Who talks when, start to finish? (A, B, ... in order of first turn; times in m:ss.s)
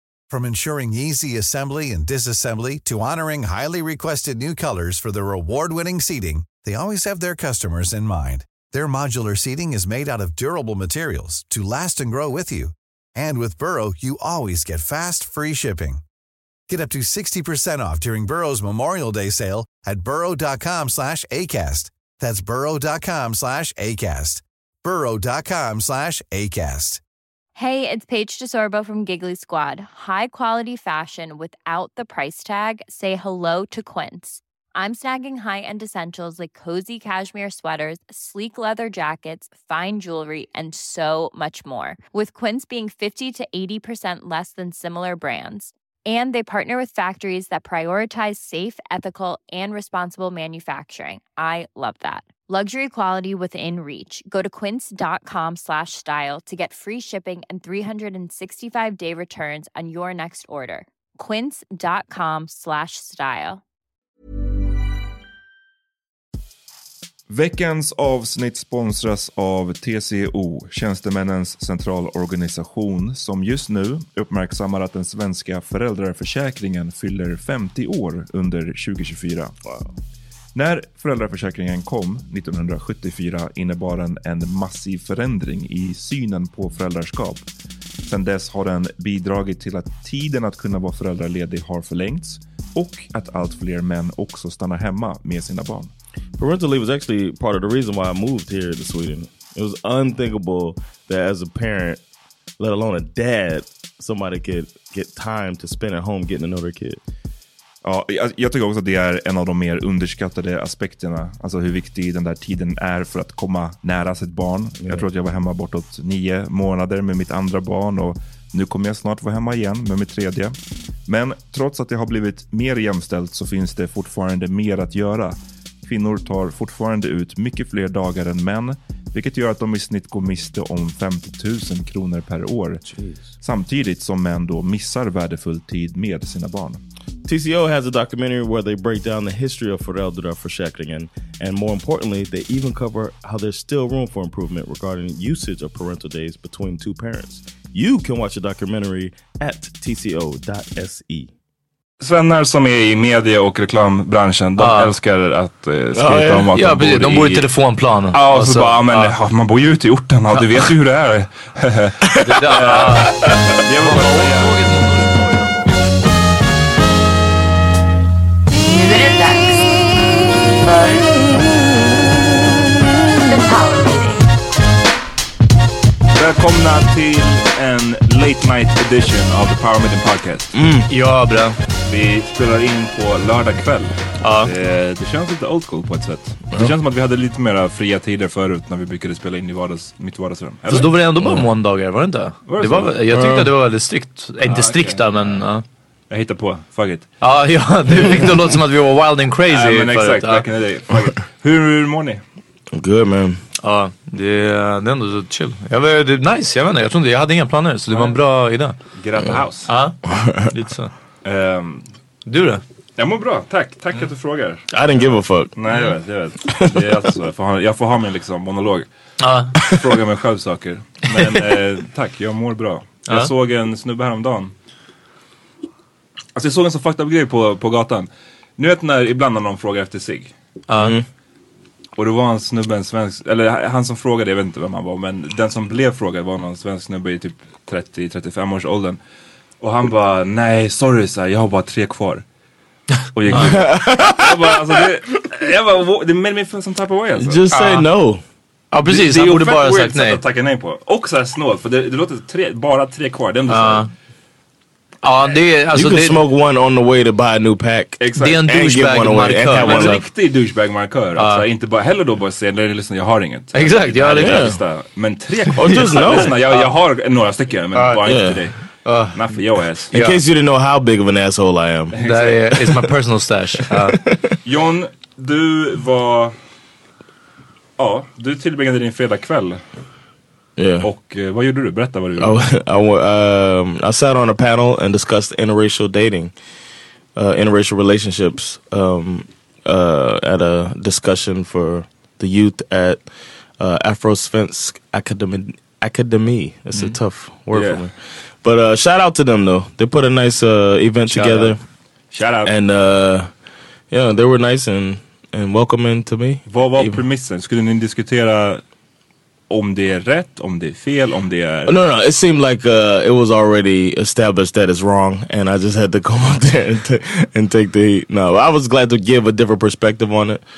0:00.3-0:16.0 A
0:16.7-0:27.0 A
0:27.6-1:03.6 B
1:07.3-1:19.5 C
1:19.6-1:19.9 D
1:20.6-1:27.4 C
1:28.1-1:35.9 C
1:36.4-1:42.0 D
1:42.6-1:47.0 D
1:47.8-2:00.5 C
2:01.1-2:12.8 C
2:12.9-2:13.2 D
2:13.4-2:16.8 C
2:17.2-2:31.3 D
2:32.0-2:37.5 C
2:34.6-2:34.9 E
2:35.9-2:36.5 D
2:36.5-2:39.1 E
2:38.1-2:44.6 C
2:42.2-2:45.8 E
2:56.2-3:00.5 C
3:00.5-3:00.9 D
3:00.9-3:01.6 E
3:01.8-3:10.9 C
3:04.2-3:04.5 E
3:10.7-3:15.6 E
3:12.5-3:13.0 C
3:13.1-3:13.5 D
3:14.5-3:15.3 C
3:16.1-3:17.1 C
3:17.2-3:20.4 E
3:19.5-3:22.2 C
3:22.7-3:23.4 D
3:23.6-3:28.8 E
3:29.0-3:29.7 C
3:29.7-3:30.0 E
3:30.0-3:30.5 D
3:30.5-3:30.9 E
3:31.2-3:31.9 C
3:32.2-3:32.6 E
3:33.0-3:34.7 C
3:34.7-3:35.5 D
3:35.6-3:38.9 C
3:39.2-3:39.5 E
3:39.6-3:44.5 C
3:46.4-3:50.3 C
3:50.7-3:51.0 E
3:50.8-3:51.0 D
3:52.0-3:59.0 C
3:59.6-4:02.2 C
4:03.1-4:07.4 C
4:03.4-4:04.8 D
4:07.2-4:08.2 D
4:07.5-4:07.8 E
4:08.7-4:10.2 E
4:08.8-4:13.9 C
4:13.5-4:13.9 E
4:15.0-4:16.2 E
4:15.7-4:20.0 D
4:18.0-4:18.4 C
4:18.2-4:20.0 E
4:19.6-4:28.6 C
4:21.2-4:21.4 E
4:23.5-4:24.5 E
4:24.2-4:24.6 D
4:25.5-4:26.4 D
4:27.7-4:28.2 E
4:28.0-4:28.4 D
4:28.8-4:29.2 E
4:29.1-4:29.9 C
4:29.9-4:30.2 E
4:29.9-4:31.9 D
4:31.9-4:32.7 C
4:32.0-4:34.0 E
4:33.7-4:34.4 D
4:34.4-4:36.3 C
4:37.8-4:39.6 C
4:40.6-4:40.9 D
4:40.8-4:42.5 C
4:42.2-4:46.3 D
4:47.1-4:53.1 D
4:53.6-5:01.6 D
4:57.5-4:57.8 C
5:01.1-5:01.5 E
5:02.1-5:02.5 C
5:02.4-5:03.3 D
5:03.9-5:07.0 D
5:06.5-5:08.6 C
5:09.5-5:11.8 C
5:11.7-5:20.4 D